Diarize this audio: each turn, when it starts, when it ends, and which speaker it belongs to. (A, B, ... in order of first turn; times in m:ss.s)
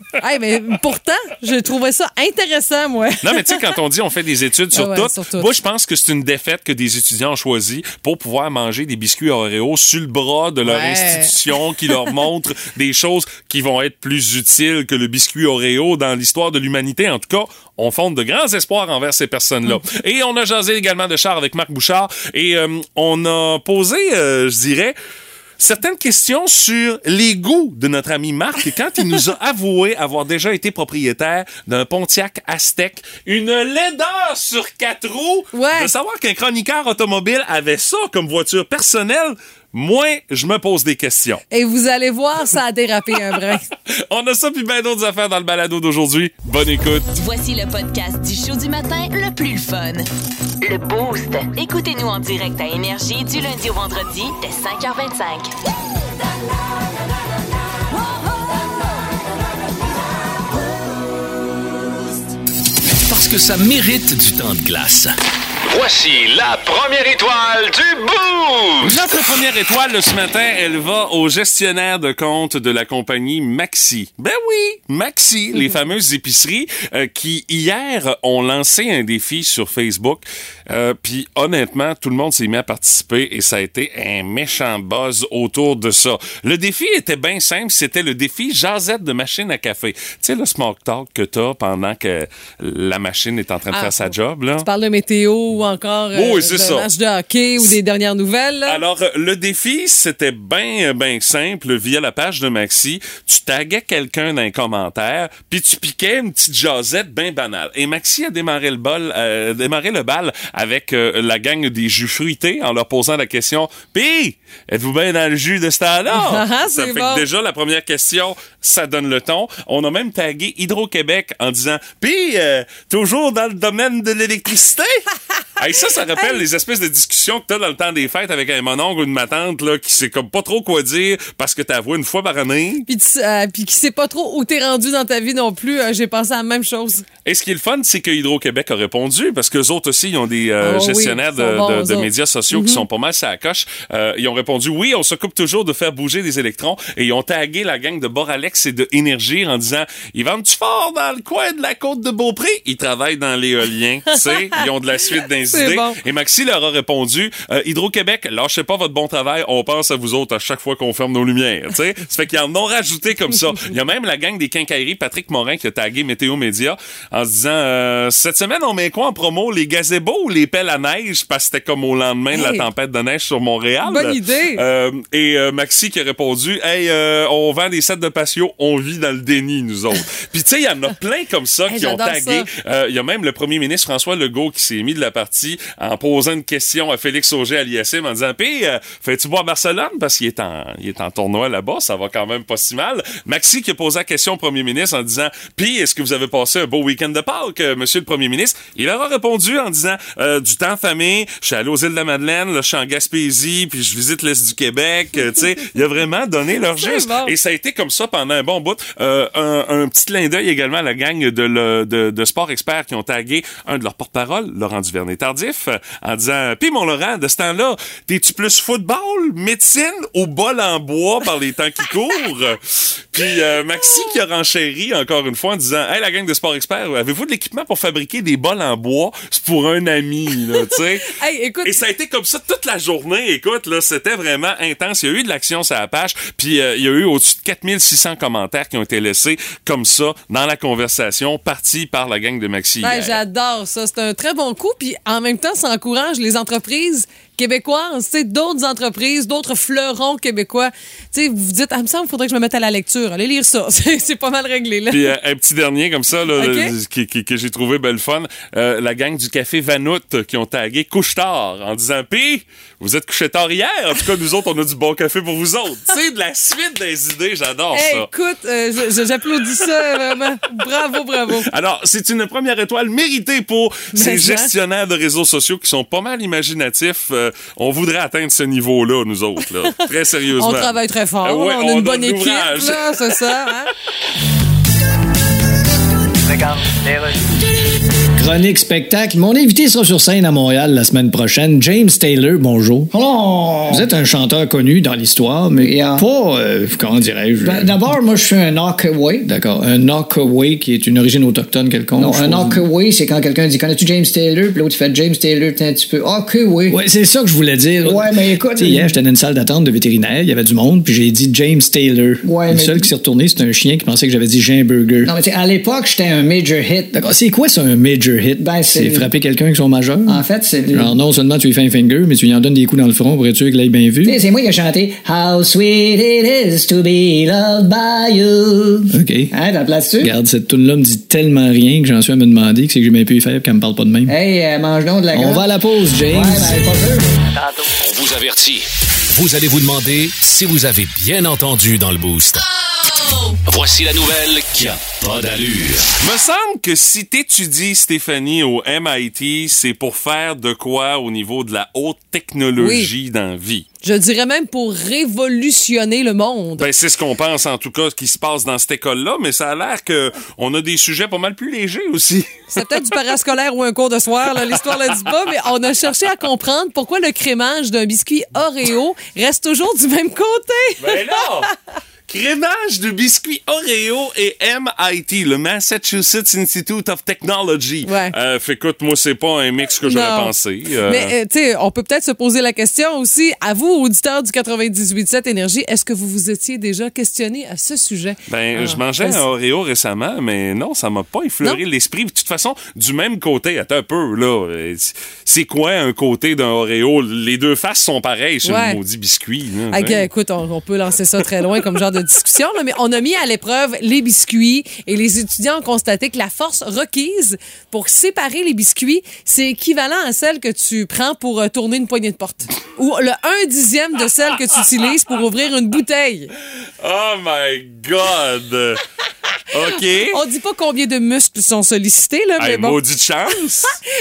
0:00.2-0:03.6 A
0:03.2-0:25.0 B
0:04.7-0:05.5 A
0:10.6-0:11.4 A
0:25.6-0:41.4 B
0:35.5-0:35.9 A
0:41.5-0:43.6 A
0:44.1-0:47.1 B
0:47.1-0:50.1 C
0:50.6-0:55.5 C
1:03.1-1:05.2 D
1:05.7-1:09.0 E
1:08.8-1:34.7 B
1:33.7-1:38.8 A
1:36.1-1:36.9 B
1:38.7-2:12.9 B
1:56.1-1:57.2 A
2:06.2-2:06.4 A
2:12.9-2:17.0 A
2:17.2-3:51.1 B
2:20.6-2:22.8 A
2:35.5-2:36.0 A
2:52.3-2:52.7 A
2:53.8-2:54.6 A
3:01.7-3:02.5 A
3:26.8-3:27.3 A
3:50.6-3:51.8 A
3:51.6-4:03.2 B
4:02.8-4:15.1 A
4:14.9-4:28.1 B
4:16.3-4:16.7 A
4:27.7-4:31.5 A
4:31.4-4:43.2 B
4:33.9-4:34.5 A
4:40.4-4:43.7 A
4:46.3-4:47.2 F
4:48.2-4:52.9 G
4:52.9-4:53.9 F
4:53.7-4:58.0 G
4:55.6-4:56.1 F
4:57.4-4:59.3 F
4:59.2-5:02.6 G
5:02.0-5:06.8 F
5:06.7-5:15.1 G
5:07.8-5:09.0 F
5:12.2-5:12.9 F
5:15.0-5:17.0 F
5:16.9-5:24.2 G
5:18.4-5:19.1 F
5:20.1-5:20.9 F
5:24.0-5:30.1 F
5:28.9-5:29.3 G
5:30.0-5:34.1 G
5:34.1-5:35.4 F
5:35.1-5:36.6 G
5:36.1-5:37.7 F
5:37.8-5:42.5 D
5:43.5-5:45.9 D
5:46.0-5:53.7 B
5:52.6-5:52.9 A
5:53.8-5:56.7 A
5:56.6-6:02.6 B
6:02.5-6:11.2 A
6:10.8-6:11.5 B
6:12.1-6:21.1 B
6:17.9-6:18.1 A
6:19.8-6:20.3 A
6:20.9-6:29.2 A
6:28.3-6:40.1 B
6:38.4-6:38.8 A
6:39.7-6:56.3 A
6:56.8-6:58.8 B
6:59.5-7:00.2 B
7:00.1-7:02.8 A
7:02.4-7:03.8 B